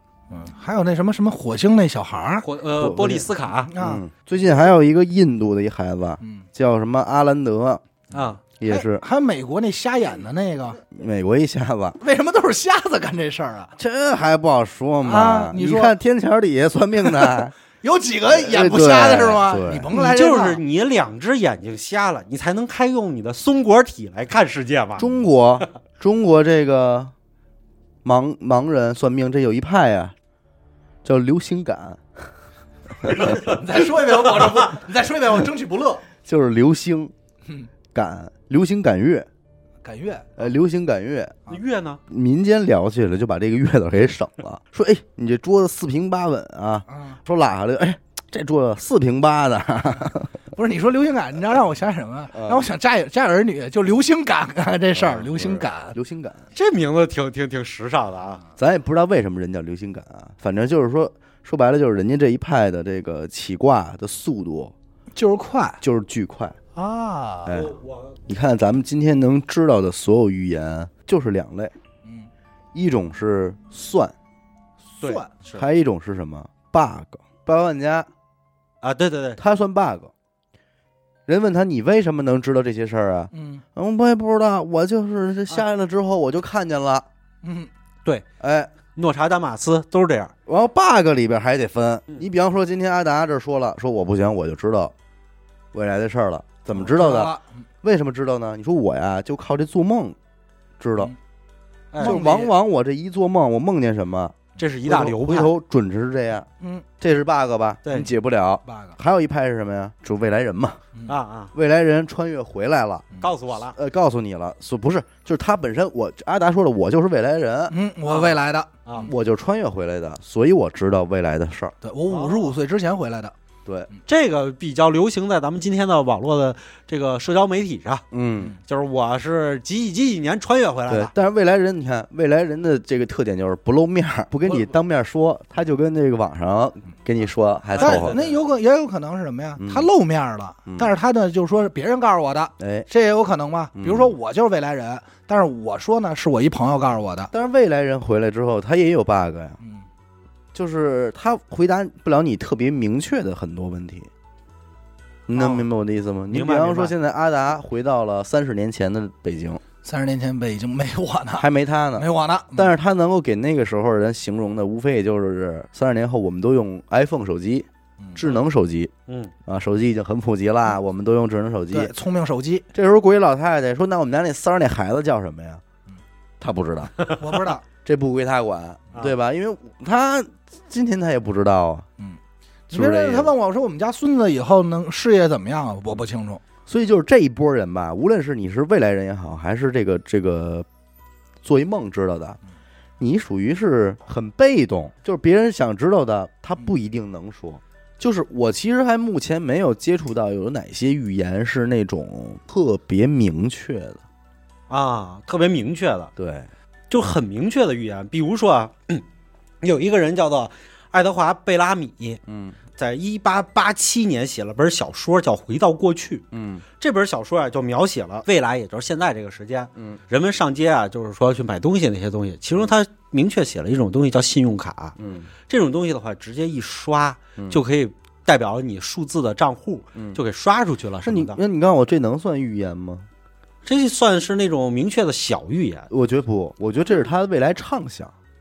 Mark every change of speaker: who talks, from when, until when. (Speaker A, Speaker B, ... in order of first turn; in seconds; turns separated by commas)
Speaker A: 0.3-2.5, Speaker B: 2.4-3.7, Speaker C: 2.8-7.8, Speaker A: 3.7-4.0, Speaker A: 6.2-6.5, Speaker B: 8.1-8.4, Speaker C: 8.6-9.0, Speaker A: 8.6-10.8, Speaker C: 10.9-12.0, Speaker A: 12.0-13.7, Speaker C: 13.8-17.5, Speaker A: 15.0-15.9, Speaker A: 17.0-20.6, Speaker C: 18.3-19.9, Speaker B: 19.9-25.1, Speaker C: 25.0-27.1, Speaker C: 28.0-30.1, Speaker C: 31.0-32.3, Speaker A: 33.0-36.0, Speaker C: 36.2-37.1, Speaker C: 37.9-39.3, Speaker A: 39.8-40.4, Speaker C: 40.4-41.5, Speaker B: 41.5-42.0, Speaker C: 42.1-50.3, Speaker A: 46.9-47.2, Speaker A: 50.5-56.0, Speaker C: 52.3-52.6, Speaker C: 54.9-56.5, Speaker B: 56.5-58.4, Speaker C: 58.6-64.7, Speaker A: 65.1-65.8, Speaker C: 65.8-66.6, Speaker A: 66.7-67.6, Speaker C: 67.5-71.7, Speaker B: 67.5-68.2, Speaker C: 72.7-74.1, Speaker B: 75.0-75.7, Speaker A: 75.0-75.3, Speaker C: 75.5-78.1, Speaker B: 78.8-79.4, Speaker C: 79.4-80.1, Speaker C: 81.3-87.1, Speaker A: 83.3-83.6, Speaker A: 87.4-87.7, Speaker C: 88.4-88.7, Speaker B: 88.9-90.3, Speaker C: 90.5-94.9, Speaker C: 95.7-100.2, Speaker A: 96.7-97.5, Speaker C: 100.8-101.1, Speaker B: 101.9-102.2, Speaker A: 102.0-102.5, Speaker C: 102.0-106.5, Speaker B: 104.6-105.5, Speaker A: 106.6-106.8, Speaker C: 107.0-110.8, Speaker B: 107.8-108.1, Speaker A: 108.7-109.0, Speaker B: 111.0-111.5, Speaker C: 111.5-113.1, Speaker B: 113.2-113.8, Speaker C: 113.6-117.8, Speaker A: 117.7-119.1, Speaker B: 118.1-119.1, Speaker C: 119.0-121.8, Speaker A: 121.8-123.3, Speaker B: 122.1-122.5, Speaker B: 124.1-128.0, Speaker C: 128.1-128.5, Speaker B: 128.7-131.1, Speaker C: 130.9-138.2, Speaker B: 137.8-138.4, Speaker A: 137.8-147.3, Speaker C: 139.6-139.9, Speaker C: 142.6-142.9, Speaker C: 143.8-144.1, Speaker C: 147.3-149.6, Speaker C: 150.5-154.1, Speaker C: 155.3-159.6, Speaker A: 155.3-155.7, Speaker B: 156.3-156.9, Speaker A: 159.8-162.7, Speaker C: 161.4-168.9, Speaker A: 168.0-168.3, Speaker B: 169.1-169.3, Speaker C: 169.4-171.9, Speaker A: 171.7-172.7, Speaker C: 172.7-175.6, Speaker C: 176.4-177.0, Speaker A: 177.2-177.6, Speaker C: 177.8-181.8, Speaker A: 182.7-186.4, Speaker C: 182.7-183.3, Speaker C: 186.7-190.7, Speaker C: 191.4-192.4, Speaker C: 193.0-204.0, Speaker B: 204.7-206.1, Speaker C: 206.2-206.5, Speaker B: 206.9-209.0, Speaker B: 209.6-212.2, Speaker C: 212.3-212.6, Speaker B: 212.7-216.2, Speaker C: 216.3-216.6, Speaker B: 216.8-224.9, Speaker C: 225.0-225.3, Speaker B: 225.5-231.4, Speaker C: 229.9-230.2, Speaker C: 231.0-233.1, Speaker B: 233.6-235.9, Speaker C: 235.9-238.1